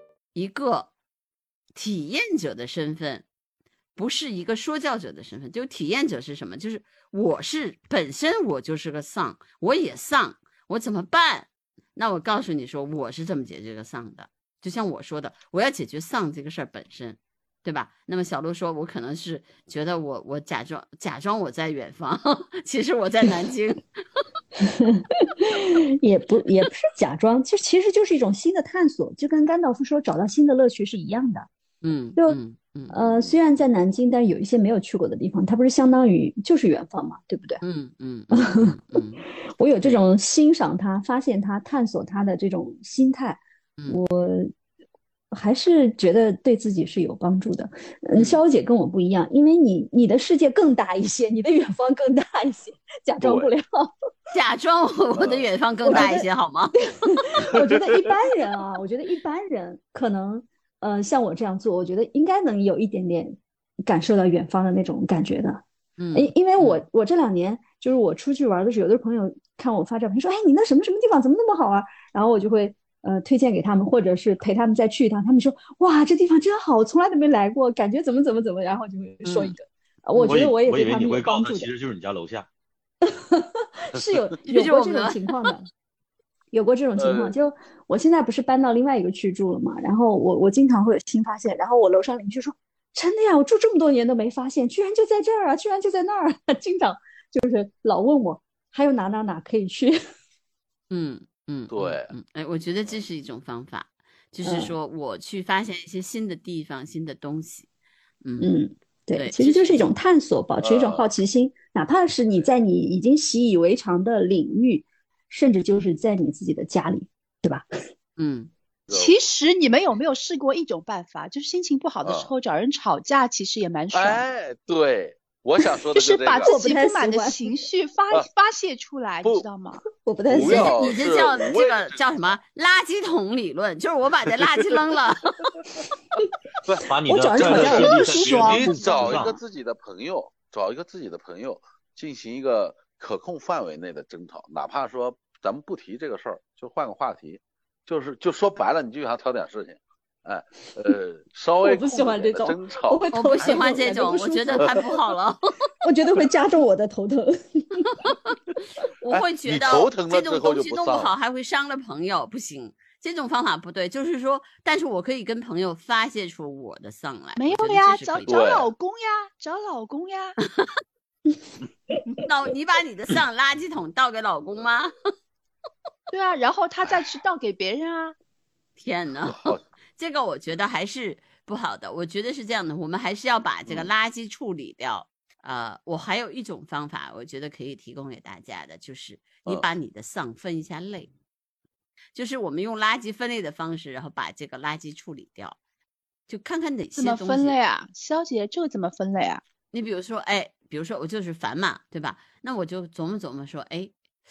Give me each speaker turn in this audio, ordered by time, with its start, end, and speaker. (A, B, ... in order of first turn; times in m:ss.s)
0:00.3-0:00.9 A
0:01.7-0:03.2 A
0:04.0-0:23.8 A
0:24.6-0:31.5 B
0:31.8-0:33.1 A
0:32.9-0:37.6 B
0:37.6-0:39.2 A
0:38.3-0:44.5 B
0:45.3-0:53.9 B
0:48.2-0:48.4 A
0:53.2-0:53.5 C
0:54.3-0:57.2 A
0:55.2-0:56.2 C
0:55.9-0:56.3 B
0:57.1-1:21.7 B
0:57.5-0:57.9 C
1:06.0-1:06.8 A
1:19.2-1:19.5 A
1:20.1-1:22.5 D
1:23.0-1:25.7 B
1:24.5-1:25.2 A
1:26.5-1:40.0 B
1:27.0-1:27.3 C
1:40.9-1:47.7 A
1:41.7-1:42.1 C
1:44.4-1:44.7 B
1:48.2-1:48.5 A
1:48.4-1:57.6 B
1:49.1-1:49.9 A
1:50.6-1:51.0 C
1:58.2-1:58.5 A
1:58.9-1:59.1 C
1:58.9-2:04.2 E
2:02.0-2:02.3 C
2:03.9-2:06.5 C
2:05.9-2:09.8 E
2:06.4-2:07.5 B
2:10.0-2:10.8 B
2:10.3-2:12.0 C
2:10.4-2:15.4 A
2:16.7-2:33.9 C
2:16.8-2:19.4 D
2:17.0-2:19.2 B
2:17.8-2:19.2 E
2:31.6-2:35.0 B
2:33.1-2:35.7 A
2:35.8-2:38.0 B
2:39.0-2:48.5 A
2:39.1-2:41.1 C
2:47.4-2:50.4 E
2:48.3-2:48.7 C
2:52.2-2:54.9 A
2:56.1-2:58.1 E
2:58.8-3:11.1 A
2:59.2-2:59.6 C
3:12.1-3:15.6 A
3:16.3-3:17.6 A
3:16.9-3:19.4 E
3:19.7-3:23.9 A